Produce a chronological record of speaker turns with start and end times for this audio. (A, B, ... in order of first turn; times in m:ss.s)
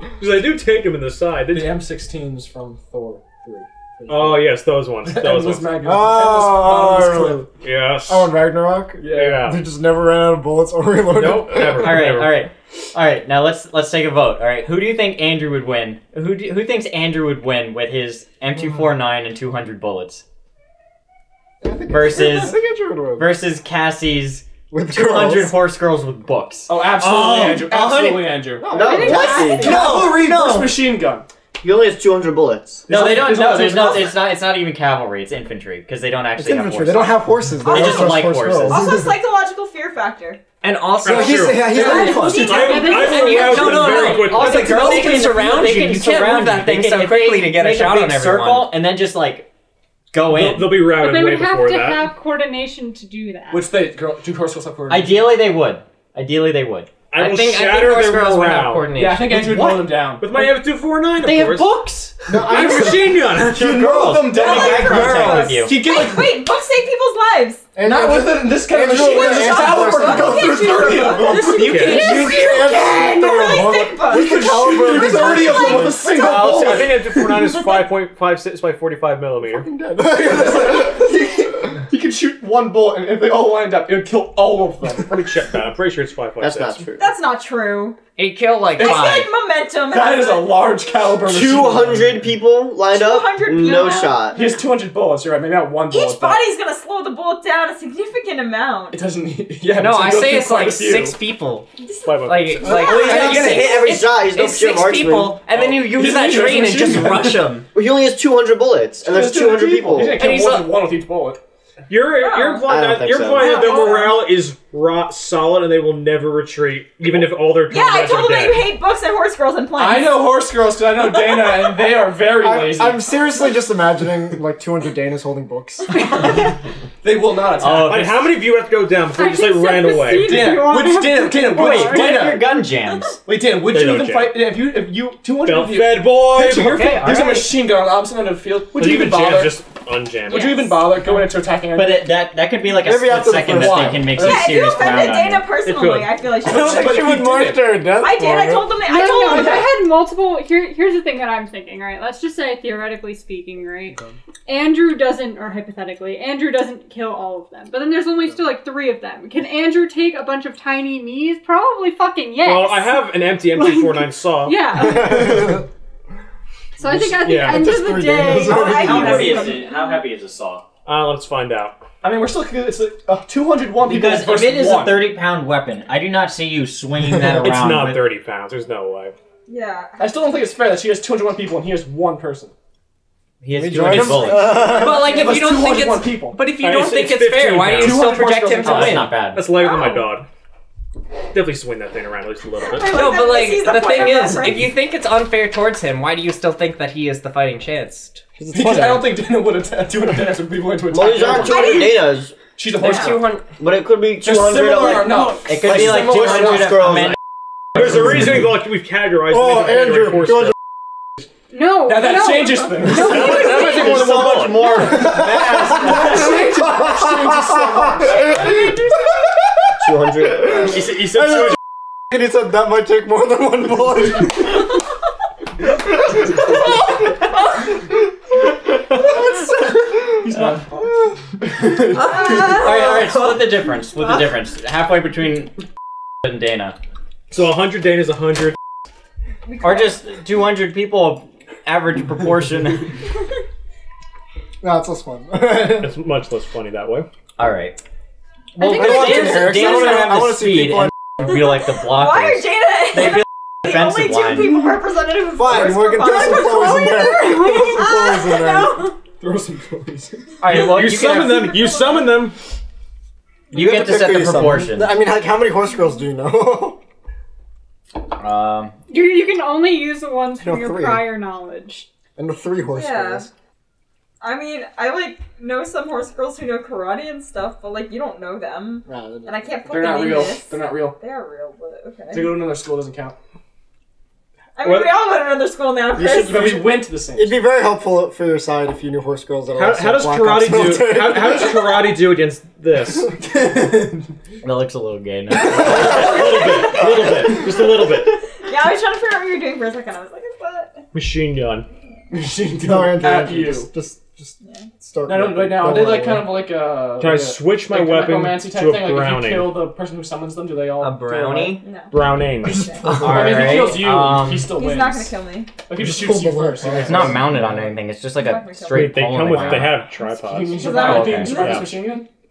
0:00.2-0:01.8 A
0:01.5-0:04.5 B
0:04.1-0:05.8 A
0:05.0-0:07.4 B
0:05.8-0:07.5 C
0:07.6-0:08.3 A
0:08.1-0:12.1 C
0:09.0-0:09.5 B
0:09.1-0:09.6 A
0:11.1-0:12.4 A
0:11.8-0:20.2 D
0:21.6-0:23.4 C
0:21.9-0:22.6 D
0:23.2-0:28.4 D
0:24.7-0:25.6 C
0:26.7-0:31.3 B
0:27.3-0:27.6 A
0:28.6-0:29.7 C
0:28.7-0:30.0 E
0:28.7-0:30.2 F
0:29.6-0:30.6 D
0:30.4-0:30.7 G
0:31.6-0:33.0 E
0:32.9-0:34.2 B
0:32.9-0:39.0 D
0:36.4-0:39.1 C
0:37.6-0:40.4 H
0:40.6-0:41.7 G
0:41.0-0:44.9 A
0:41.0-0:42.6 C
0:41.7-0:44.3 F
0:41.7-0:42.2 B
0:41.8-0:43.4 H
0:43.0-0:48.7 G
0:44.1-0:49.5 D
0:50.1-0:50.8 D
0:50.2-0:52.1 A
0:50.9-0:53.7 F
0:53.5-0:55.2 B
0:54.9-0:57.0 D
0:57.1-0:58.9 A
0:57.1-0:59.5 G
0:58.9-1:00.5 B
0:59.4-0:59.7 D
1:00.2-1:01.7 A
1:01.2-1:02.2 D
1:02.3-1:05.6 C
1:02.4-1:06.4 B
1:02.5-1:03.6 A
1:03.4-1:05.8 D
1:04.3-1:07.6 H
1:05.0-1:05.3 A
1:07.8-1:16.8 C
1:07.8-1:12.7 B
1:08.9-1:14.5 H
1:11.6-1:12.2 A
1:11.6-1:12.9 G
1:13.6-1:17.2 B
1:15.4-1:16.1 H
1:16.1-1:19.7 A
1:19.4-1:21.5 C
1:20.0-1:25.2 B
1:25.0-1:26.9 A
1:26.4-1:27.1 E
1:27.0-1:28.0 H
1:28.2-1:29.3 G
1:28.8-1:29.2 B
1:28.8-1:30.7 H
1:29.9-1:32.2 B
1:31.2-1:34.4 E
1:32.9-1:34.4 H
1:33.5-1:34.5 F
1:34.3-1:36.4 B
1:35.9-1:39.0 H
1:38.9-1:41.2 B
1:39.7-1:41.7 G
1:41.8-1:43.8 H
1:42.0-1:42.6 A
1:42.2-1:47.6 G
1:42.6-1:43.6 B
1:42.6-1:43.1 C
1:42.7-1:45.4 E
1:45.5-1:47.5 B
1:47.7-1:50.3 E
1:49.0-1:51.4 B
1:50.1-1:50.7 G
1:51.9-1:58.7 A
1:52.2-1:52.7 H
1:52.7-1:53.6 E
1:53.4-1:54.2 H
1:57.7-2:00.3 H
1:59.8-2:03.1 B
2:01.2-2:01.9 H
2:02.4-2:05.9 C
2:06.0-2:08.3 B
2:07.6-2:07.9 D
2:07.6-2:10.6 A
2:09.1-2:12.3 F
2:10.1-2:12.5 B
2:11.5-2:13.2 D
2:13.2-2:19.6 B
2:13.7-2:14.4 A
2:15.4-2:16.8 A
2:16.6-2:17.5 D
2:18.7-2:20.5 A
2:20.3-2:22.1 B
2:20.3-2:20.9 F
2:21.7-2:25.5 D
2:22.8-2:24.2 C
2:23.3-2:25.0 B
2:24.2-2:27.1 H
2:25.6-2:26.1 A
2:26.4-2:28.7 C
2:26.5-2:27.7 B
2:28.0-2:29.7 H
2:28.8-2:43.0 F
2:29.3-2:29.6 B
2:42.4-2:44.6 A
2:44.4-2:45.6 F
2:44.7-2:45.6 C
2:46.8-2:49.4 F
2:46.8-2:49.4 C
2:47.2-2:47.8 A
2:48.3-2:49.9 H
2:48.5-2:50.6 D
2:50.8-2:51.8 A
2:52.0-2:55.2 B
2:53.8-2:58.0 D
2:57.2-2:59.2 A
2:59.5-3:00.1 H
3:00.0-3:02.5 B
3:03.4-3:04.8 D
3:03.5-3:05.2 C
3:04.6-3:09.2 G
3:04.8-3:06.4 B
3:06.6-3:10.3 A
3:07.7-3:09.0 B
3:07.8-3:09.5 D
3:09.5-3:10.1 H
3:11.3-3:13.0 A
3:12.6-3:14.8 H
3:12.9-3:18.2 G
3:18.4-3:19.1 C
3:18.5-3:21.9 B
3:20.9-3:22.4 E
3:21.3-3:22.0 H
3:22.5-3:23.4 B
3:22.7-3:23.4 G
3:22.8-3:23.2 H
3:23.6-3:27.1 E
3:24.2-3:25.6 B
3:25.5-3:27.2 D
3:25.7-3:26.7 G
3:27.8-3:30.5 A
3:29.5-3:30.5 C
3:31.5-3:33.7 F
3:31.8-3:33.7 B
3:32.9-3:35.0 A
3:33.5-3:35.0 E
3:34.9-3:38.2 C
3:35.0-3:38.5 B
3:35.6-3:36.0 G
3:39.8-3:40.9 E
3:40.7-3:41.5 A
3:42.1-3:44.5 C
3:50.2-3:52.6 B
3:52.0-3:53.4 G
3:52.1-3:55.6 D
3:52.2-3:52.6 H
3:56.2-3:56.8 D
3:57.3-3:58.5 A
3:59.5-4:00.0 H
3:59.6-4:03.0 D
4:04.6-4:05.9 C
4:05.6-4:07.1 A
4:07.4-4:07.8 D
4:08.6-4:14.7 D
4:08.6-4:10.9 C
4:11.3-4:19.0 H
4:15.3-4:18.9 C
4:19.1-4:20.3 B
4:20.4-4:21.6 D
4:20.5-4:22.4 A
4:20.5-4:21.4 G
4:21.2-4:22.1 H
4:23.5-4:25.0 D
4:23.5-4:26.8 C
4:28.2-4:28.8 D
4:28.9-4:31.9 F
4:30.4-4:31.1 C
4:32.2-4:33.3 C
4:32.7-4:33.3 H
4:34.2-4:42.4 H
4:38.8-4:39.6 C
4:39.6-4:41.0 B
4:42.1-4:43.2 B
4:44.6-4:46.7 H
4:44.6-4:45.0 A
4:46.0-4:51.7 C
4:46.0-4:47.4 B
4:49.5-4:53.1 A
4:53.2-4:54.0 B
4:54.4-4:56.4 D
4:55.4-4:55.9 C
4:55.7-4:58.1 A
4:55.7-4:57.2 H
4:57.0-4:57.4 C
4:58.4-5:00.8 H
5:00.9-5:01.7 A
5:02.1-5:03.7 B
5:02.6-5:06.3 C
5:04.4-5:04.7 H
5:05.0-5:11.6 B
5:07.0-5:09.6 A
5:10.8-5:11.6 G
5:11.6-5:12.8 H
5:11.9-5:12.8 A
5:12.4-5:13.4 C
5:12.5-5:15.2 B
5:12.8-5:14.5 D
5:12.9-5:13.7 G
5:14.5-5:15.5 H
5:15.7-5:17.4 B
5:15.8-5:17.8 C
5:16.7-5:19.8 D
5:18.2-5:19.0 H
5:18.7-5:21.7 A
5:19.1-5:22.1 B
5:20.5-5:21.7 H
5:20.8-5:21.5 D